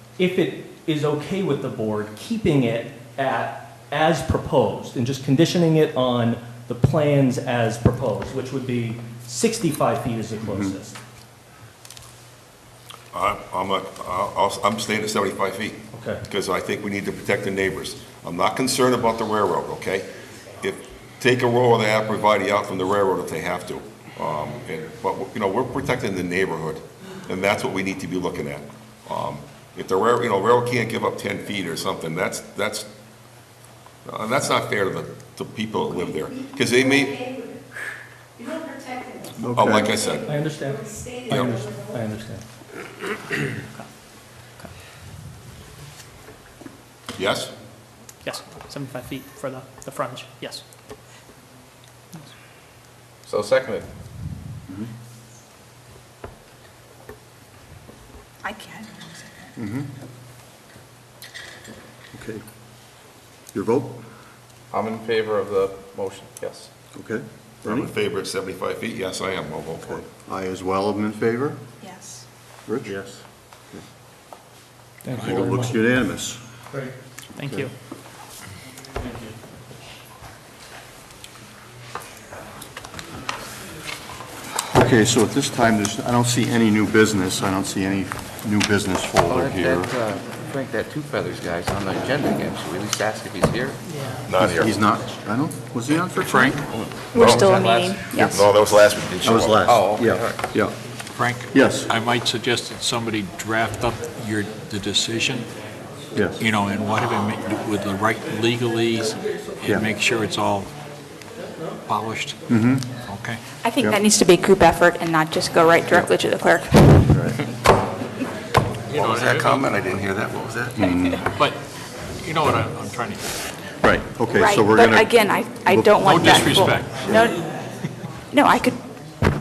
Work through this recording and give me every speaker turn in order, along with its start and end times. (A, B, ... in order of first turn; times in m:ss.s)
0:00.2-0:11.0 A
0:10.5-0:10.8 B
0:13.1-0:20.1 C
0:15.9-0:16.2 A
0:20.6-0:32.9 C
0:34.0-0:37.4 C
0:38.4-0:39.2 D
0:39.4-0:40.0 B
0:39.5-0:40.3 C
0:40.3-0:42.4 A
0:47.1-0:47.5 C
0:48.2-0:50.6 E
0:53.3-0:53.9 F
0:58.4-0:59.5 D
0:59.6-0:59.9 B
1:02.1-1:02.4 B
1:03.5-1:04.0 B
1:04.7-1:06.7 F
1:07.0-1:07.9 B
1:07.6-1:10.0 C
1:09.8-1:11.6 B
1:11.8-1:12.2 D
1:12.7-1:13.0 B
1:12.9-1:13.2 F
1:15.0-1:15.8 A
1:15.1-1:16.4 B
1:17.4-1:17.7 B
1:17.4-1:17.7 E
1:24.6-1:29.9 B
1:29.3-1:33.8 F
1:34.3-1:34.7 C
1:34.4-1:34.8 F
1:34.4-1:36.6 B
1:35.9-1:36.6 G
1:36.7-1:38.4 F
1:37.1-1:38.4 D
1:38.2-1:39.7 C
1:39.2-1:40.8 B
1:39.6-1:40.4 F
1:41.2-1:45.5 G
1:41.5-1:41.9 B
1:46.2-1:46.4 B
1:46.4-1:50.7 G
1:51.9-1:52.4 G
1:52.5-1:52.9 B
1:53.0-1:53.4 G
1:53.6-1:57.2 D
1:57.1-1:57.4 B
1:58.9-1:59.7 G
1:58.9-2:00.9 C
2:00.8-2:01.2 B
2:02.2-2:03.2 G
2:03.8-2:06.4 B
2:04.3-2:07.5 D
2:06.0-2:07.4 G
2:08.3-2:08.8 D